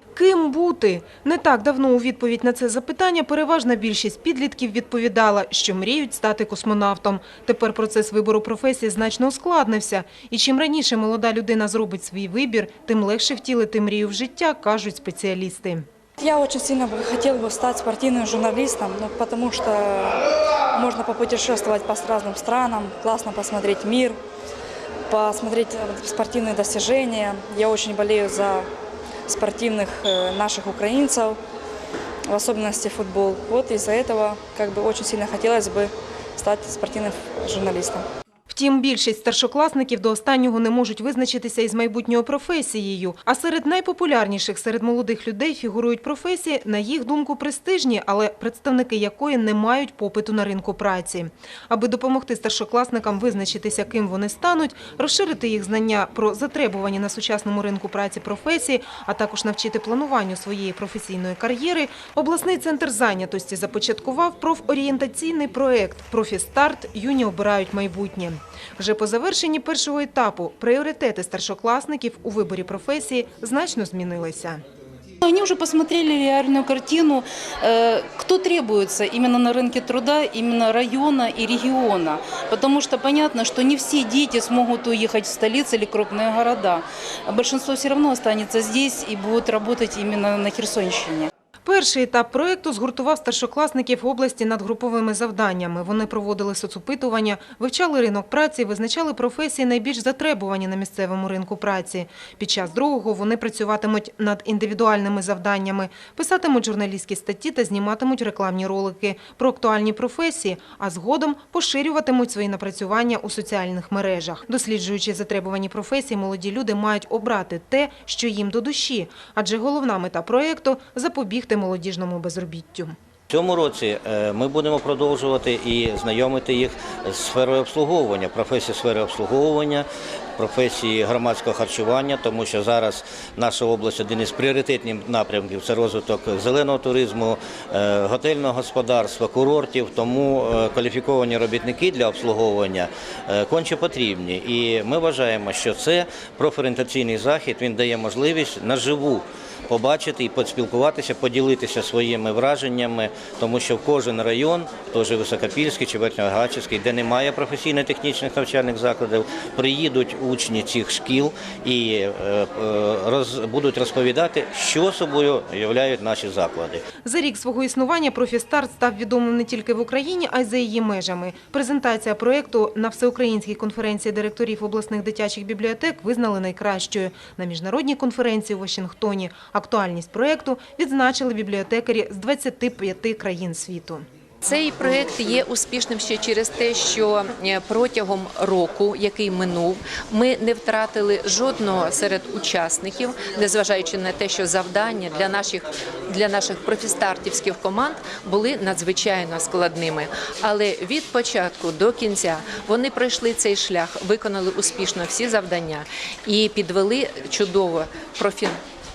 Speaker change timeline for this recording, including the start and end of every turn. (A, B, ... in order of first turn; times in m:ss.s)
0:00.1-0:15.8 A
0:16.2-0:24.2 B
0:25.1-0:28.7 B
0:29.3-0:31.4 B
0:32.3-0:38.0 B
0:38.5-1:14.6 A
1:15.2-1:31.3 C
1:31.6-2:02.9 A
2:03.3-2:46.8 D
2:47.0-3:04.0 A
3:04.4-3:28.6 E